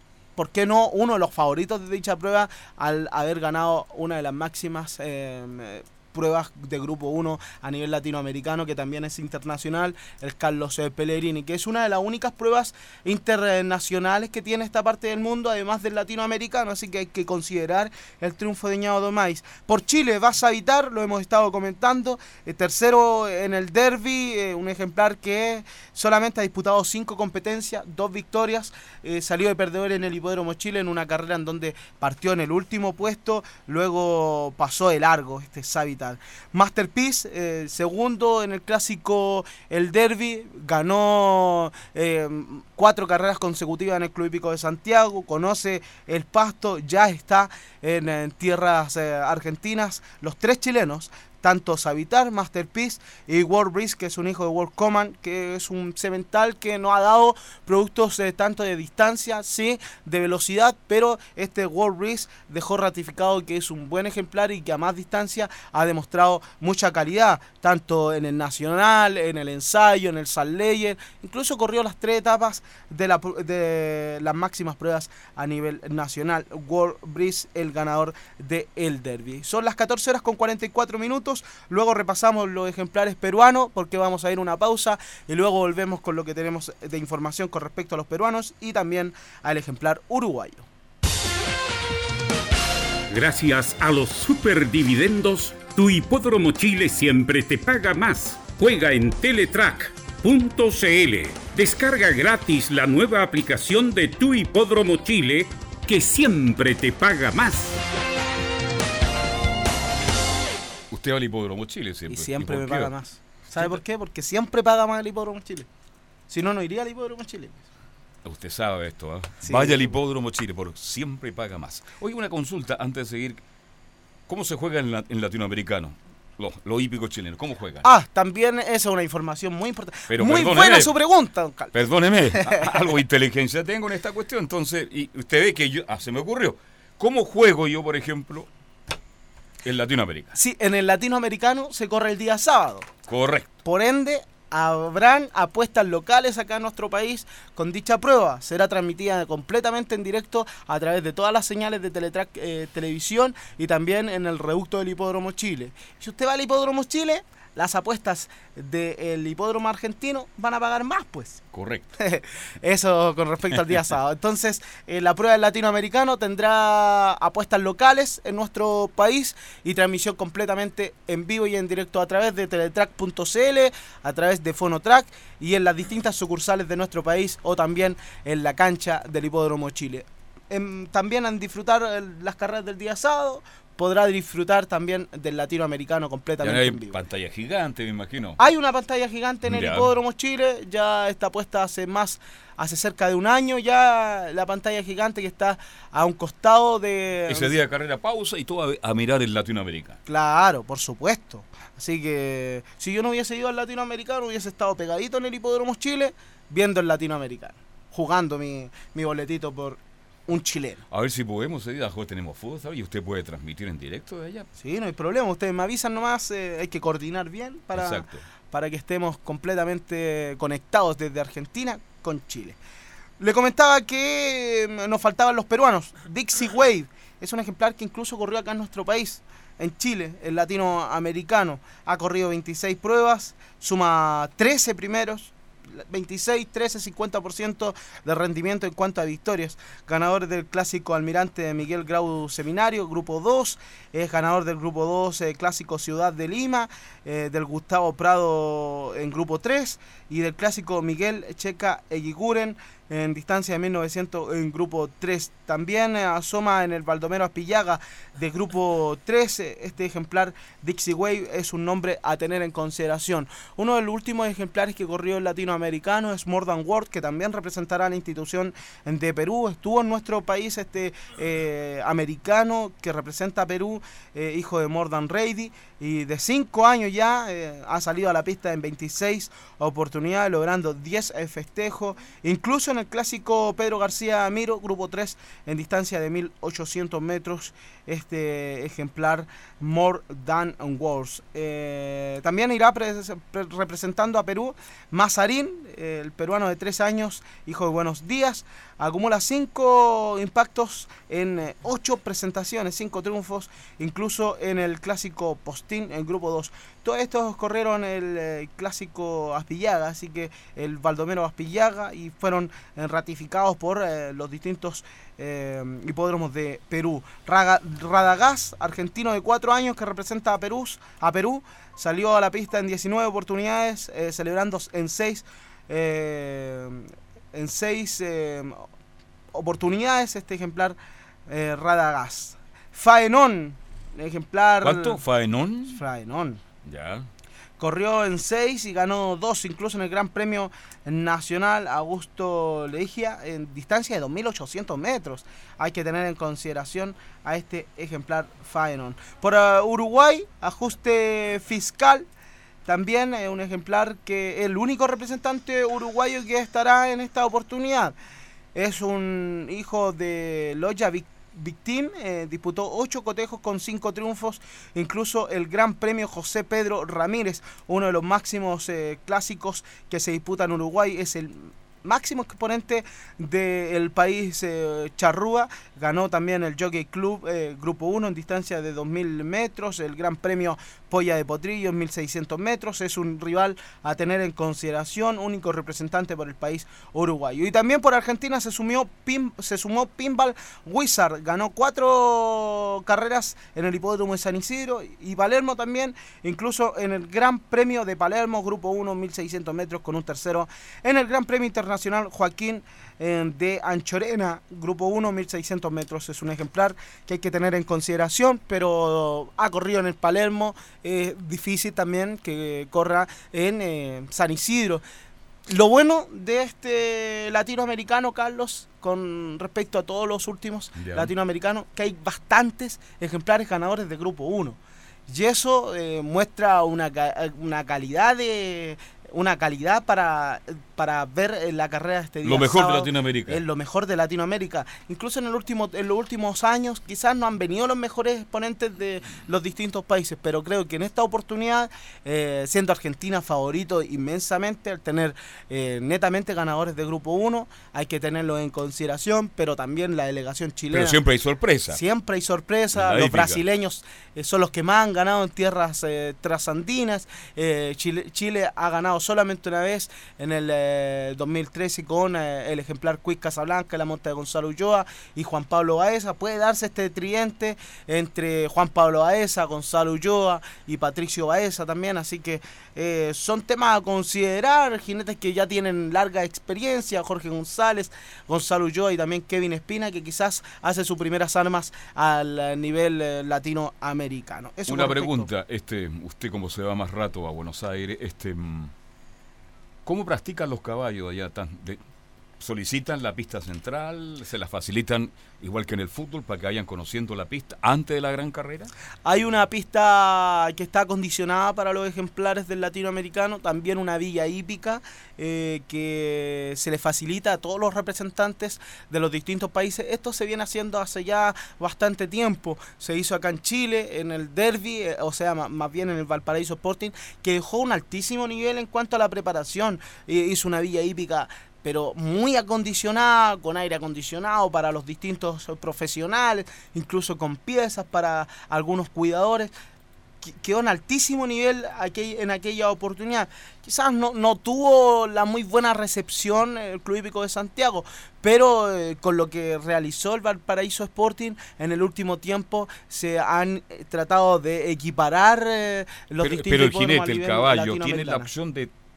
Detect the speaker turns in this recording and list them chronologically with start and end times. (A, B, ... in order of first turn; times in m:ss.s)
0:00.4-1:30.6 A
1:33.1-1:47.7 B
1:50.9-1:52.9 C
1:52.1-1:55.7 A
1:53.5-1:53.8 C
1:56.3-1:57.6 A
1:58.2-2:03.4 C
1:59.4-1:59.9 A
2:04.3-2:07.9 C
2:07.8-2:11.7 A
2:10.1-2:11.0 C
2:11.7-2:18.5 C
2:12.3-2:12.8 A
2:19.6-2:20.4 C
2:20.3-2:22.9 A
2:23.1-2:23.5 C
2:23.6-2:41.4 A
2:41.5-2:41.9 C
2:42.0-3:07.0 A
3:06.4-3:08.4 C
3:08.4-3:17.5 A
3:09.4-3:09.9 C
3:17.3-3:20.0 C
3:20.1-3:30.8 A
3:30.9-3:34.5 C
3:34.6-3:42.6 A
3:37.7-3:38.2 C
3:43.2-5:28.6 A
5:29.3-5:30.8 A
5:31.3-5:35.0 A
5:34.6-5:35.8 C
5:35.7-5:36.4 A
5:36.6-5:37.1 C
5:37.6-5:52.1 A
5:52.6-5:57.9 A
5:58.5-6:54.8 A
6:55.5-7:31.0 A
7:00.7-7:01.1 C
7:12.2-7:13.4 C
7:30.7-7:31.8 C
7:31.7-8:05.3 A
7:32.7-7:33.4 C
8:04.7-8:08.7 C
8:09.8-8:11.8 C
8:12.4-8:18.7 C
8:19.0-8:49.5 A
8:50.2-9:08.3 A
9:06.2-9:08.7 C